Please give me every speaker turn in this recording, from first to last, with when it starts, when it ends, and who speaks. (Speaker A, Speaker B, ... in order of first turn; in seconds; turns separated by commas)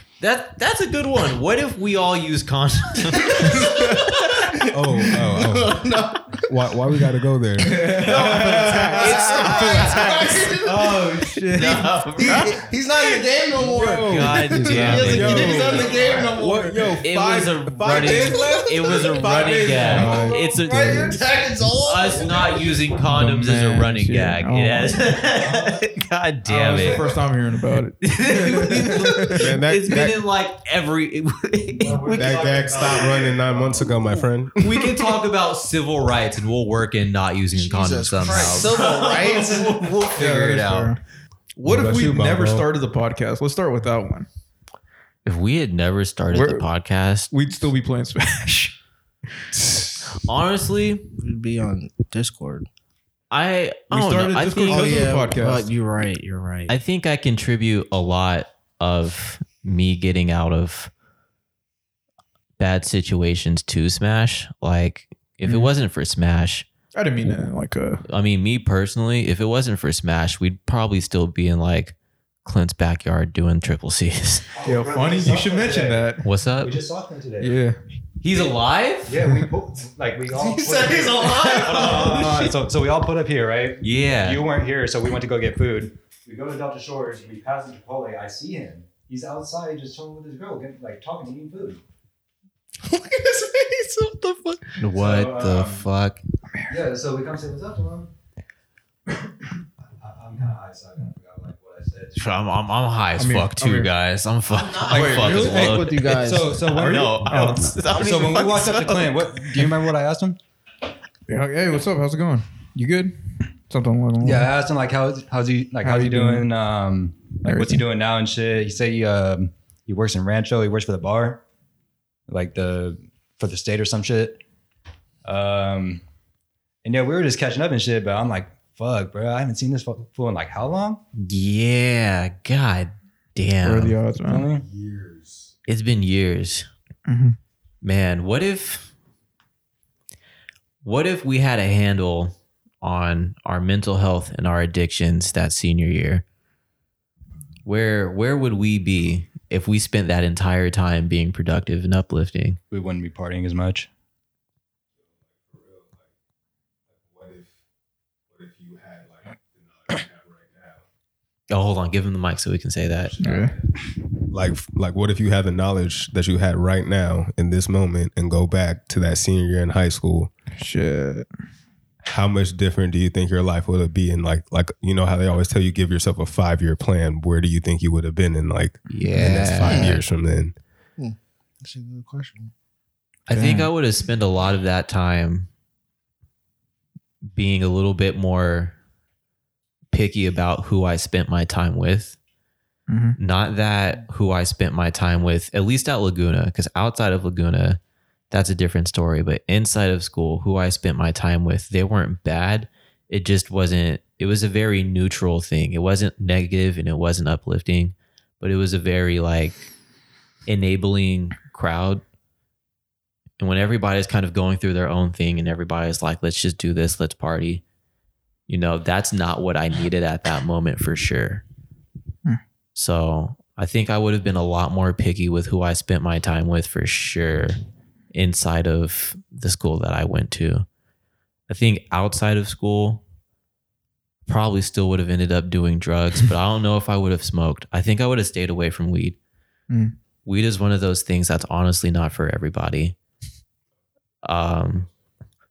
Speaker A: 0.2-4.5, Speaker B: 3.3-6.5, Speaker C: 4.7-8.0, Speaker D: 7.6-9.9, Speaker B: 7.8-16.9, Speaker A: 8.2-10.5, Speaker D: 10.6-12.4, Speaker A: 11.6-12.6, Speaker C: 13.6-19.8, Speaker A: 14.0-15.8, Speaker D: 14.6-15.8, Speaker A: 17.0-21.3, Speaker B: 17.9-22.5, Speaker D: 19.7-21.0, Speaker E: 19.9-20.2, Speaker A: 21.8-27.1, Speaker E: 22.2-22.7, Speaker D: 23.1-25.0, Speaker E: 25.4-25.8, Speaker D: 26.5-29.4, Speaker E: 26.7-26.9, Speaker A: 28.0-32.7, Speaker C: 29.3-30.2, Speaker E: 31.8-34.2, Speaker C: 32.1-35.0, Speaker A: 34.6-41.0, Speaker B: 37.5-40.1, Speaker E: 38.3-38.5, Speaker D: 40.2-41.0, Speaker D: 41.6-44.3, Speaker C: 41.6-42.7, Speaker A: 45.2-47.3, Speaker D: 46.3-46.7, Speaker D: 47.3-48.8, Speaker A: 50.2-51.0, Speaker B: 51.2-52.7, Speaker A: 53.3-55.2, Speaker D: 53.9-55.7, Speaker B: 54.7-56.7, Speaker A: 56.7-60.9, Speaker A: 62.6-66.7, Speaker D: 65.4-65.7, Speaker D: 67.0-68.0, Speaker A: 68.0-74.5, Speaker E: 74.5-77.6, Speaker D: 74.6-76.2, Speaker A: 76.2-76.8, Speaker D: 77.4-77.8, Speaker A: 78.2-79.2, Speaker E: 79.1-91.8, Speaker B: 80.3-82.4, Speaker A: 81.3-82.4, Speaker D: 82.1-82.5, Speaker A: 83.8-84.5, Speaker B: 92.8-94.8, Speaker A: 94.8-96.2, Speaker E: 94.9-95.9, Speaker E: 96.7-98.1, Speaker E: 100.0-102.2, Speaker A: 102.2-109.7, Speaker D: 103.2-103.9, Speaker E: 104.8-110.4, Speaker D: 104.9-105.5, Speaker B: 105.0-106.6, Speaker D: 107.2-107.8, Speaker D: 111.3-114.5, Speaker E: 114.2-121.4, Speaker D: 115.8-116.5, Speaker D: 117.5-117.8, Speaker E: 122.3-124.4, Speaker E: 125.2-126.0, Speaker E: 126.8-131.0, Speaker A: 131.2-134.0, Speaker D: 133.6-134.5, Speaker E: 134.2-134.7, Speaker C: 134.7-135.5, Speaker A: 135.7-136.7, Speaker D: 137.1-137.4, Speaker A: 137.8-138.9, Speaker A: 140.8-146.2, Speaker A: 147.7-152.6, Speaker E: 152.7-153.9, Speaker C: 155.1-156.1, Speaker C: 156.9-157.5, Speaker C: 158.3-160.8, Speaker A: 161.5-163.2, Speaker E: 163.2-163.5, Speaker D: 163.2-163.5, Speaker C: 164.3-170.3, Speaker D: 170.6-171.3, Speaker C: 172.0-180.6, Speaker A: 178.9-180.0, Speaker B: 179.6-180.0, Speaker B: 181.0-182.5, Speaker A: 183.3-185.5, Speaker D: 183.3-183.7, Speaker A: 187.3-188.8, Speaker A: 189.9-192.2, Speaker D: 192.9-193.2, Speaker A: 193.2-197.8, Speaker A: 198.3-209.6, Speaker A: 210.5-212.0, Speaker A: 213.4-217.6, Speaker A: 218.5-221.4, Speaker A: 222.8-227.6, Speaker A: 228.1-230.7, Speaker A: 231.5-233.0, Speaker A: 234.3-239.2, Speaker D: 239.7-239.9, Speaker A: 240.3-243.0, Speaker A: 244.2-244.9